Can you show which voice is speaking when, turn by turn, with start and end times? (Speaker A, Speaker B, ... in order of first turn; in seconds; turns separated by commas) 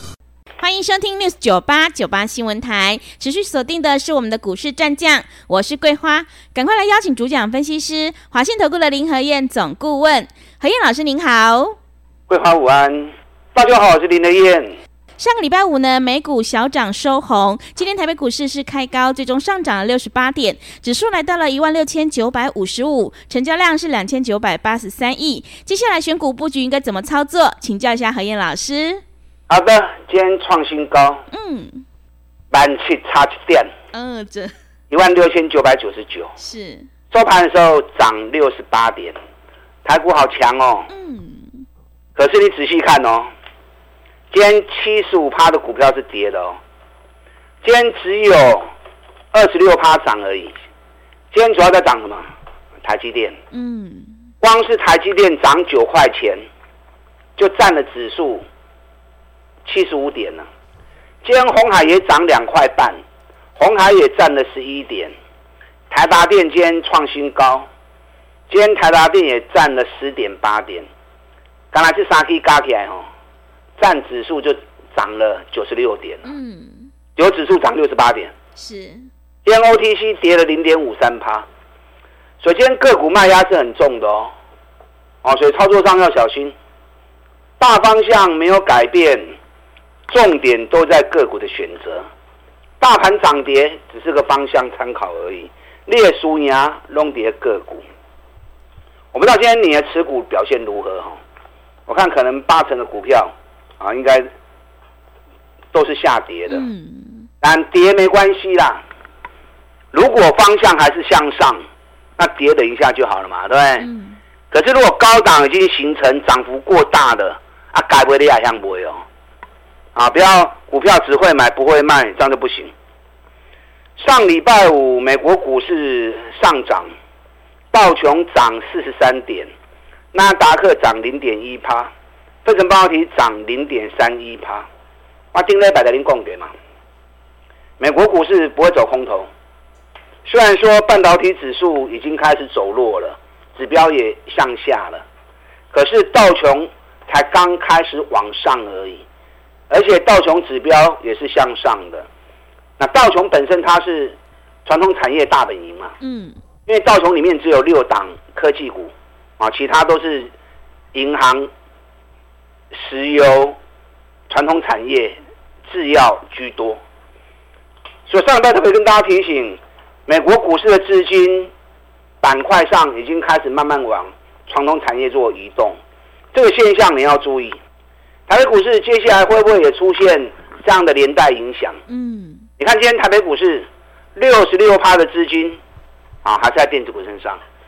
Speaker A: 0.6-11.8, Speaker B: 12.3-14.8, Speaker A: 15.2-29.0, Speaker B: 29.5-31.2, Speaker A: 31.3-31.8, Speaker B: 32.5-33.7, Speaker A: 33.9-34.5, Speaker B: 34.9-36.3, Speaker A: 36.4-36.9, Speaker B: 37.1-39.2, Speaker B: 39.9-40.9, Speaker A: 40.9-41.6, Speaker B: 42.2-43.3, Speaker B: 44.3-46.6, Speaker B: 47.6-48.7, Speaker B: 49.3-50.5, Speaker B: 51.3-52.2, Speaker B: 52.8-53.4, Speaker A: 53.5-54.1, Speaker B: 54.4-56.5, Speaker B: 57.4-58.5, Speaker B: 59.6-60.5, Speaker B: 61.2-63.0, Speaker B: 63.6-65.1, Speaker B: 65.9-67.7, Speaker B: 68.5-70.9, Speaker B: 71.7-73.0, Speaker B: 73.8-76.3, Speaker A: 76.2-76.9, Speaker B: 77.2-78.3, Speaker A: 78.6-79.1, Speaker B: 79.5-81.5, Speaker B: 82.4-84.3, Speaker B: 85.2-86.5, Speaker B: 87.6-89.3, Speaker B: 90.1-92.1, Speaker B: 92.8-97.8, Speaker B: 99.1-101.2, Speaker B: 101.9-104.3, Speaker B: 105.7-106.6, Speaker A: 106.5-107.3, Speaker B: 107.4-108.8, Speaker B: 109.9-111.6, Speaker B: 112.2-113.9, Speaker A: 113.8-114.2, Speaker B: 114.5-119.0, Speaker B: 120.0-122.7, Speaker B: 124.0-126.9, Speaker B: 127.7-129.5, Speaker B: 130.1-131.9, Speaker B: 132.4-134.7, Speaker B: 135.3-136.5, Speaker B: 137.8-139.3, Speaker B: 140.2-145.0, Speaker B: 145.7-149.0, Speaker B: 149.7-152.1, Speaker B: 152.8-155.9, Speaker A: 156.0-156.4, Speaker B: 156.7-160.3, Speaker B: 160.9-161.5, Speaker B: 162.7-163.6, Speaker B: 164.3-166.8, Speaker B: 168.1-171.5, Speaker B: 172.2-175.8, Speaker B: 176.3-177.6, Speaker B: 178.3-181.8, Speaker A: 181.9-182.5, Speaker B: 182.6-185.6, Speaker B: 186.2-187.4